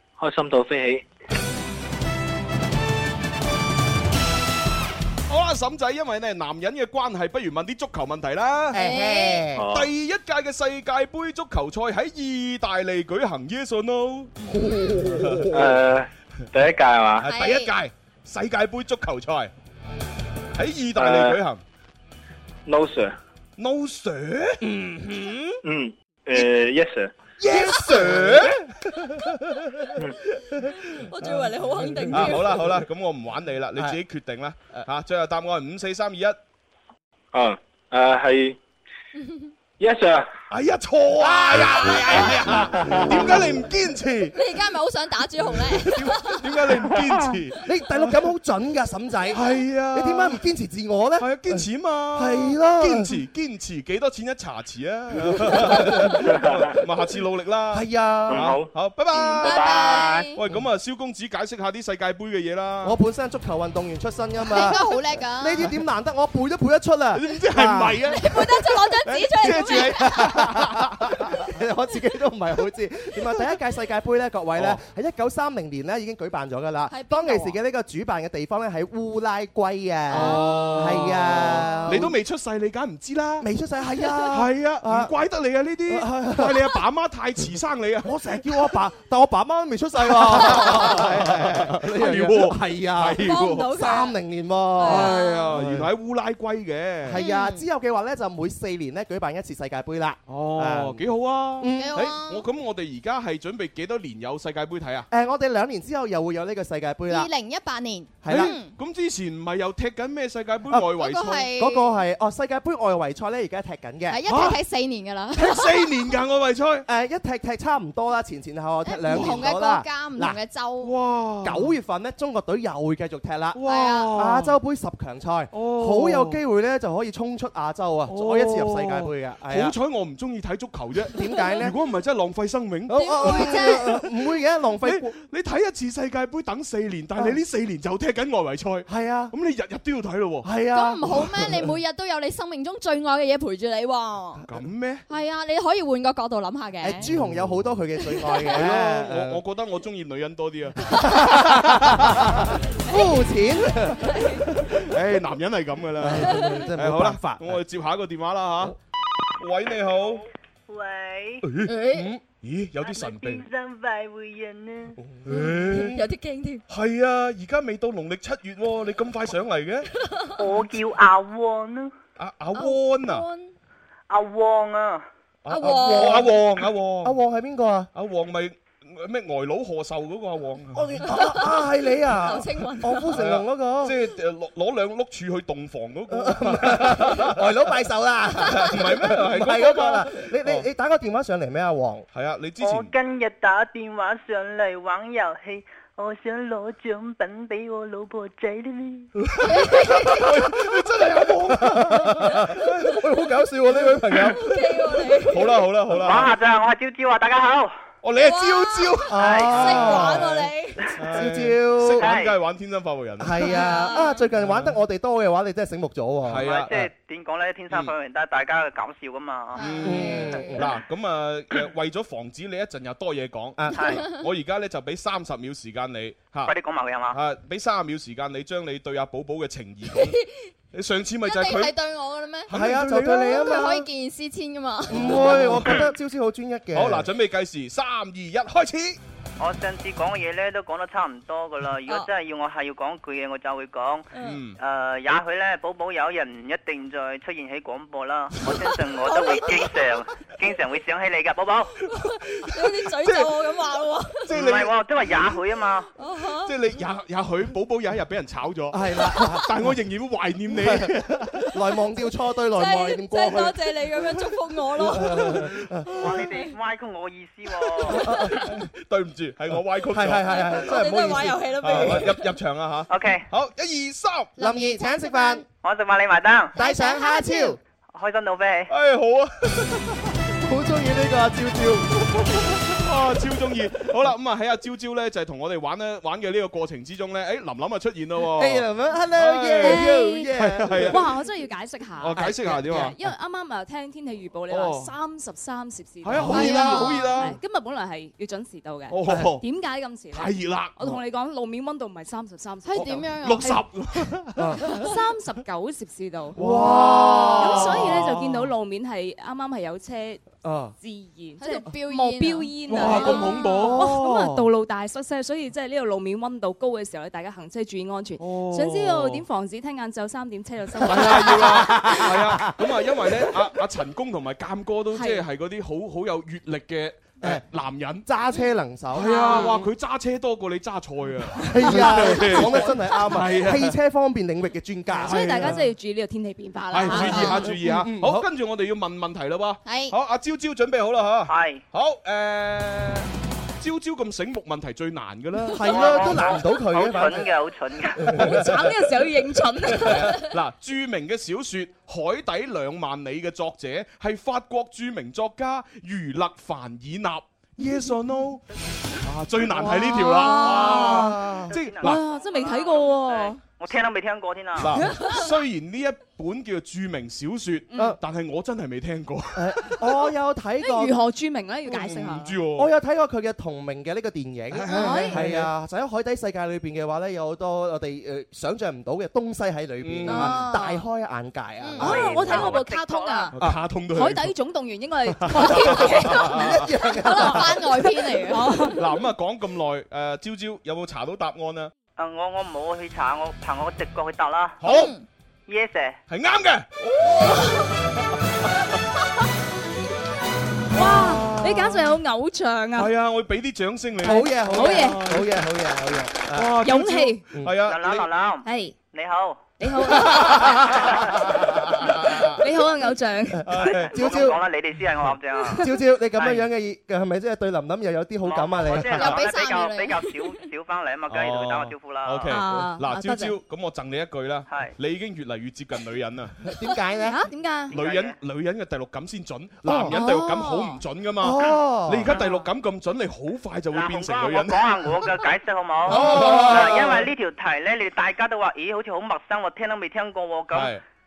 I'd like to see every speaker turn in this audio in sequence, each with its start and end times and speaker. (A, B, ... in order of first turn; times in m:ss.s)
0:00.2-0:01.0 A
0:05.3-0:08.8 B
0:08.7-0:09.7 C
0:08.7-0:09.5 D
0:09.6-0:09.9 A
0:09.7-0:15.8 B
0:14.8-0:15.3 C
0:15.5-0:17.3 A
0:17.2-0:19.5 B
0:17.2-0:17.7 D
0:20.6-0:21.6 B
0:21.0-0:21.4 A
0:22.7-0:23.2 A
0:23.6-0:25.6 B
0:24.6-0:25.2 C
0:25.6-0:27.1 A
0:27.4-0:28.7 C
0:27.5-0:28.6 B
0:31.0-0:32.6 D
0:31.8-0:32.6 C
0:32.1-0:36.4 B
0:37.3-0:38.6 A
0:39.8-0:40.3 A
0:40.5-0:44.4 B
0:44.3-0:46.9 D
0:45.7-0:48.1 B
0:47.6-0:53.2 C
0:49.3-0:50.4 B
0:51.2-1:03.0 B
0:55.2-0:56.2 C
0:56.3-0:56.6 A
0:57.7-0:58.5 C
0:58.3-0:58.7 A
0:59.2-1:00.3 A
0:59.4-1:00.4 D
1:02.8-1:04.8 C
1:04.4-1:05.7 D
1:05.4-1:08.0 C
1:07.1-1:11.5 B
1:08.1-1:10.5 D
1:09.4-1:22.1 C
1:16.9-1:17.6 D
1:20.1-1:22.0 D
1:20.1-1:23.5 B
1:23.4-1:25.1 C
1:24.0-1:24.3 D
1:24.3-1:28.5 B
1:25.9-1:26.8 C
1:28.0-1:35.9 C
1:30.0-1:33.8 B
1:33.2-1:34.2 D
1:34.8-1:35.5 D
1:34.8-1:37.2 B
1:37.0-1:42.1 C
1:37.1-1:37.6 D
1:40.3-1:45.1 B
1:41.8-1:42.4 D
1:45.1-1:47.3 C
1:47.1-1:48.7 D
1:48.2-1:48.6 C
1:48.3-1:51.5 B
1:51.0-1:51.9 D
1:51.5-1:54.2 C
1:54.1-1:55.9 D
1:54.3-1:54.6 B
1:55.3-1:56.9 B
1:56.9-2:00.4 C
1:58.8-2:00.9 D
1:59.1-1:59.4 B
2:00.8-2:01.7 B
2:01.4-2:09.8 C
2:03.5-2:04.6 B
2:03.6-2:04.1 D
2:05.5-2:06.4 B
2:08.1-2:14.0 B
2:11.1-2:11.8 C
2:12.9-2:15.1 C
2:13.0-2:13.9 D
2:14.8-2:20.5 B
2:18.9-2:19.3 C
2:20.4-2:21.4 C
2:20.7-2:24.4 D
2:24.5-2:25.0 B
2:25.1-2:27.1 D
2:26.8-2:29.4 C
2:27.0-2:27.6 B
2:28.5-2:32.5 B
2:30.9-2:34.8 C
2:34.1-2:34.4 D
2:34.7-2:38.8 B
2:36.0-2:37.6 C
2:39.4-2:40.2 B
2:40.7-2:41.4 E
2:41.4-2:41.8 B
2:41.7-2:42.1 D
2:41.8-2:42.2 C
2:42.4-2:43.4 B
2:42.8-2:45.0 E
2:45.2-2:45.8 C
2:45.2-2:46.0 B
2:45.3-2:46.6 D
2:46.7-2:49.9 B
2:50.0-2:50.4 D
2:50.4-2:51.9 E
2:52.2-2:53.3 B
2:52.6-2:53.5 D
2:54.1-2:55.0 E
2:55.4-2:57.2 B
2:55.5-2:56.3 D
2:55.6-2:56.4 C
2:57.0-2:57.9 C
2:57.9-3:01.1 B
3:00.7-3:04.0 C
3:01.1-3:01.4 D
3:02.2-3:03.1 D
3:03.1-3:07.5 B
3:06.1-3:12.1 C
3:08.4-3:10.6 B
3:12.1-3:12.9 B
3:12.6-3:19.1 E
3:19.2-3:23.0 B
3:19.5-3:20.2 D
3:21.5-3:24.7 C
3:24.1-3:24.5 B
3:24.4-3:25.6 D
3:25.2-3:26.3 B
3:26.0-3:27.7 E
3:28.0-3:30.4 B
3:28.2-3:29.0 D
3:29.1-3:30.5 C
3:29.2-3:29.6 E
3:29.6-3:30.9 D
3:31.0-3:33.6 B
3:31.0-3:32.1 C
3:32.0-3:32.4 E
3:33.2-3:36.4 C
3:33.5-3:34.2 D
3:34.4-3:34.8 B
3:36.2-3:36.9 B
3:36.4-3:39.8 E
3:39.6-3:40.6 D
3:39.6-3:46.5 B
3:39.8-3:40.7 C
3:43.6-3:44.0 C
3:43.8-3:44.0 E
3:43.8-3:44.2 D
3:46.5-3:47.2 E
3:47.1-3:50.2 B
3:49.9-3:50.3 D
3:50.7-3:51.7 B
3:51.2-3:55.4 D
3:52.5-3:53.6 B
3:52.5-3:53.9 C
3:54.9-3:57.1 C
3:54.9-3:55.8 B
3:56.8-3:59.0 B
3:59.4-4:11.8 E
4:04.2-4:04.6 B
4:09.2-4:09.5 D
4:12.3-4:13.4 B
4:12.6-4:14.2 D
4:14.3-4:14.8 B
4:14.3-4:15.9 E
4:16.0-4:16.5 D
4:16.4-4:21.4 B
4:18.7-4:19.7 C
4:20.5-4:23.7 C
4:22.6-4:25.0 D
4:24.8-4:26.0 C
4:24.9-4:26.2 B
4:26.0-4:28.1 E
4:27.8-4:30.9 B
4:27.9-4:28.7 C
4:29.9-4:32.2 C
4:30.4-4:32.2 D
4:31.6-4:34.3 B
4:32.9-4:33.3 E
4:34.4-4:35.4 C
4:34.4-4:35.4 D
4:35.6-4:36.6 E
4:36.6-4:37.6 D
4:36.6-4:37.6 C
4:37.9-4:38.7 E
4:38.7-4:40.1 B
4:40.4-4:42.8 C
4:42.8-4:51.1 B
4:48.2-4:51.0 C
4:49.6-4:50.3 F
4:50.9-5:03.1 F
4:52.0-4:53.0 B
4:52.2-4:52.8 C
4:54.5-4:54.9 B
4:56.0-4:57.4 B
4:56.3-4:56.8 C
4:56.3-4:56.8 D
4:58.9-4:59.4 B
5:00.1-5:01.0 B
5:02.6-5:03.6 D
5:02.7-5:04.9 B
5:04.4-5:04.7 C
5:04.6-5:10.2 F
5:06.4-5:08.2 C
5:06.4-5:08.4 B
5:10.4-5:10.8 C
5:10.8-5:22.1 F
5:11.4-5:13.2 D
5:12.7-5:14.2 B
5:12.7-5:14.5 C
5:18.2-5:19.2 B
5:20.8-5:28.1 B
5:20.8-5:22.5 C
5:24.9-5:25.2 F
5:28.0-5:29.5 C
5:28.9-5:33.8 B
5:29.0-5:29.7 F
5:31.5-5:35.6 C
5:31.6-5:32.4 F
5:35.0-5:37.5 F
5:35.0-5:35.6 B
5:36.7-5:43.1 B
5:36.8-5:37.4 D
5:36.9-5:38.2 C
5:39.6-5:39.9 D
5:41.3-5:41.6 E
5:43.6-5:46.2 B
5:45.5-5:47.3 C
5:45.6-5:48.2 E
5:48.0-5:48.7 C
5:48.1-5:50.4 F
5:49.7-5:58.4 B
5:59.0-6:02.0 B
5:59.5-6:01.2 F
6:00.2-6:01.6 C
6:01.5-6:04.8 E
6:01.8-6:03.4 F
6:04.6-6:09.9 B
6:04.7-6:05.3 F
6:09.4-6:11.0 C
6:10.6-6:12.4 F
6:11.7-6:12.7 B
6:12.6-6:22.4 C
6:14.5-6:15.5 B
6:14.7-6:15.2 F
6:19.8-6:20.5 B
6:20.1-6:20.8 F
6:21.6-6:21.9 D
6:21.8-6:23.4 F
6:22.0-6:23.3 E
6:23.4-6:24.3 B
6:23.9-6:26.6 F
6:25.2-6:26.6 B
6:25.4-6:27.8 C
6:26.9-6:28.5 D
6:28.2-6:28.8 F
6:28.7-6:31.7 B
6:32.0-6:34.6 E
6:34.6-6:34.9 B
6:34.6-6:35.0 D
6:35.5-6:36.0 E
6:36.1-6:37.6 B
6:40.7-6:42.9 F
6:41.0-6:41.4 B
6:41.2-6:41.5 C
6:42.8-6:45.3 B
6:44.0-6:46.6 C
6:44.1-6:45.1 F
6:46.3-6:48.1 B
6:46.6-6:47.2 F
6:47.6-6:49.5 E
6:48.4-6:48.8 F
6:49.6-6:50.7 F
6:49.9-6:52.4 B
6:50.6-6:51.1 E
6:52.4-6:53.6 F
6:53.4-6:54.4 C
6:53.4-6:54.0 B
6:53.6-6:55.7 E
6:55.6-6:59.2 C
6:56.2-6:56.5 B
6:58.2-7:02.4 E
6:58.9-7:00.1 D
7:01.1-7:06.4 B
7:02.3-7:03.4 F
7:04.5-7:04.7 E
7:06.5-7:07.2 C
7:07.0-7:07.8 F
7:07.7-7:14.9 B
7:07.7-7:08.2 E
7:09.6-7:10.0 C
7:09.9-7:10.8 F
7:11.2-7:12.1 C
7:13.7-7:20.7 E
7:15.9-7:17.0 C
7:15.9-7:16.9 B
7:20.5-7:20.8 B